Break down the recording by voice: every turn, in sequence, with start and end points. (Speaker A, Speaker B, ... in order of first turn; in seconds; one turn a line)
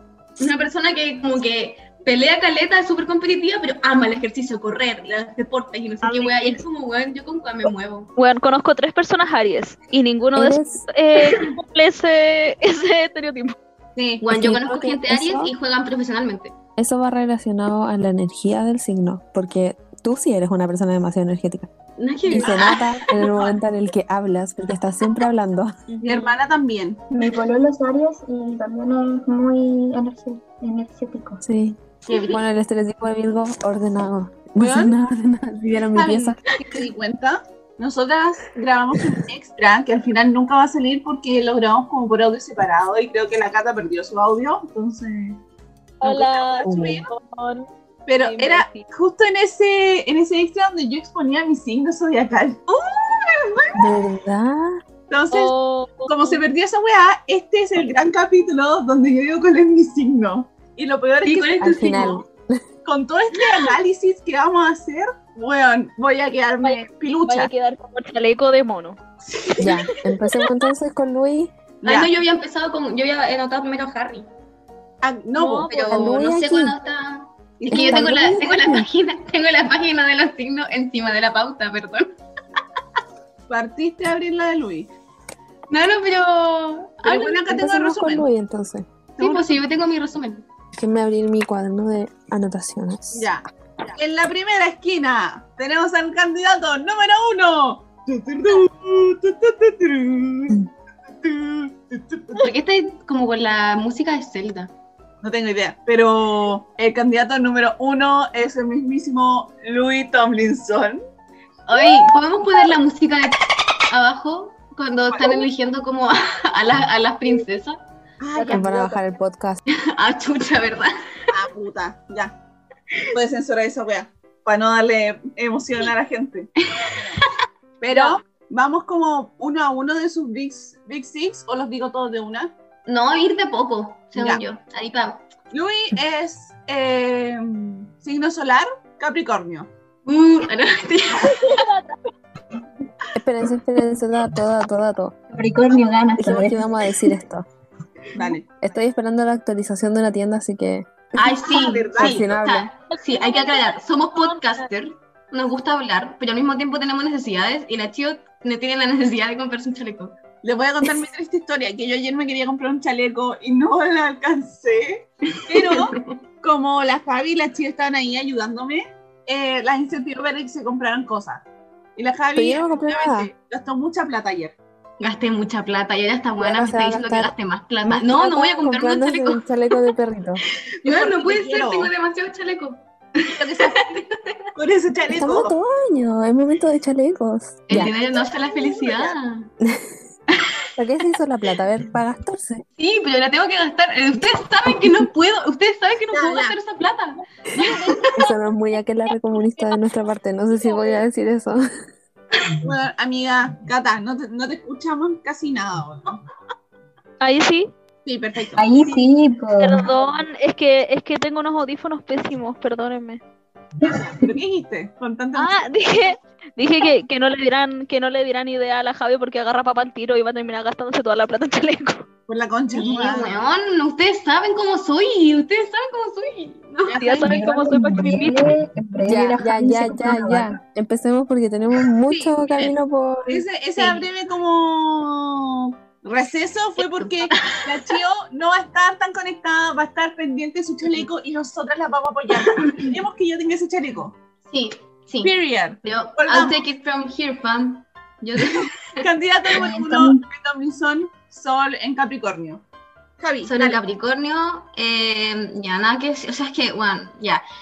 Speaker A: 0.4-8.1
Speaker B: 6.0-6.6
Speaker C: 8.2-13.6
Speaker D: 10.3-10.9
Speaker B: 13.9-14.2
Speaker A: 14.2-16.5
Speaker D: 14.3-15.5
Speaker D: 16.8-21.7
Speaker A: 22.0-23.6
Speaker D: 22.3-25.7
Speaker B: 26.0-27.0
Speaker C: 26.0-26.4
Speaker E: 27.1-31.4
Speaker D: 31.4-36.4
Speaker A: 32.0-32.4
Speaker B: 34.6-35.0
Speaker B: 35.9-45.4
Speaker C: 46.0-47.7
Speaker B: 46.0-47.1
Speaker D: 46.6-47.0
Speaker B: 48.1-52.6
Speaker C: 48.2-48.9
Speaker A: 52.7-53.8
Speaker D: 53.8-54.8
Speaker B: 55.1-55.5
Speaker C: 55.3-56.4
Speaker B: 56.1-61.9
Speaker A: 61.2-62.2
Speaker D: 61.6-62.6
Speaker B: 62.8-67.5
Speaker C: 66.6-69.0
Speaker B: 69.5-69.9
Speaker D: 69.6-71.5
Speaker B: 71.8-72.1
Speaker A: 71.8-74.3
Speaker B: 75.0-75.7
Speaker C: 75.4-76.1
Speaker A: 75.7-82.1
Speaker D: 75.9-76.7
Speaker B: 77.6-78.1
Speaker D: 77.7-78.9
Speaker B: 83.5-84.9
Speaker A: 85.7-87.4
Speaker B: 87.0-88.3
Speaker D: 87.5-88.8
Speaker A: 89.2-90.4
Speaker D: 90.8-93.3
Speaker B: 93.1-102.5
Speaker A: 102.3-104.7
Speaker B: 105.2-111.0
Speaker A: 111.7-117.8
Speaker B: 115.1-115.5
Speaker B: 118.2-119.0
Speaker D: 118.5-119.6
Speaker A: 119.7-121.3
Speaker B: 121.3-122.3
Speaker B: 123.1-127.2
Speaker A: 126.6-127.3
Speaker B: 127.8-132.5
Speaker A: 127.9-128.2
Speaker A: 132.9-135.3
Speaker B: 134.1-134.4
Speaker B: 135.5-139.7
Speaker A: 140.1-141.6
Speaker C: 141.3-141.9
Speaker D: 143.1-145.2
Speaker E: 145.3-147.2
Speaker D: 146.2-147.5
Speaker B: 148.1-148.5
Speaker D: 148.6-152.7
Speaker A: 151.2-160.2
Speaker B: 151.4-152.3
Speaker C: 152.9-154.6
Speaker B: 160.4-171.4
Speaker A: 165.4-166.2
Speaker B: 171.9-174.5
Speaker D: 172.3-173.3
Speaker A: 175.0-179.5
Speaker D: 176.4-177.3
Speaker D: 177.8-180.4
Speaker B: 180.8-181.9
Speaker A: 180.8-184.5
Speaker B: 183.3-183.8
Speaker B: 184.6-185.5
Speaker D: 185.1-187.9
Speaker A: 187.7-189.5
Speaker B: 187.7-189.1
Speaker D: 190.8-192.6
Speaker A: 192.8-198.2
Speaker B: 196.1-196.6
Speaker B: 197.6-198.0
Speaker D: 198.2-201.7
Speaker B: 202.6-206.2
Speaker C: 207.2-207.7
Speaker B: 208.0-208.7
Speaker E: 208.6-209.9
Speaker C: 209.6-213.2
Speaker E: 213.8-214.1
Speaker B: 213.8-215.7
Speaker C: 215.3-222.1
Speaker B: 222.3-223.4
Speaker A: 222.7-227.3
Speaker B: 226.8-227.2
Speaker C: 227.0-228.6
Speaker E: 227.2-230.6
Speaker D: 229.1-233.4
Speaker B: 232.1-232.7
Speaker B: 233.3-244.2
Speaker A: 233.8-234.0
Speaker A: 236.8-237.9
Speaker A: 244.4-249.0
Speaker B: 245.2-246.6
Speaker B: 248.4-252.6
Speaker E: 249.5-250.2
Speaker B: 253.2-253.8
Speaker A: 253.4-257.4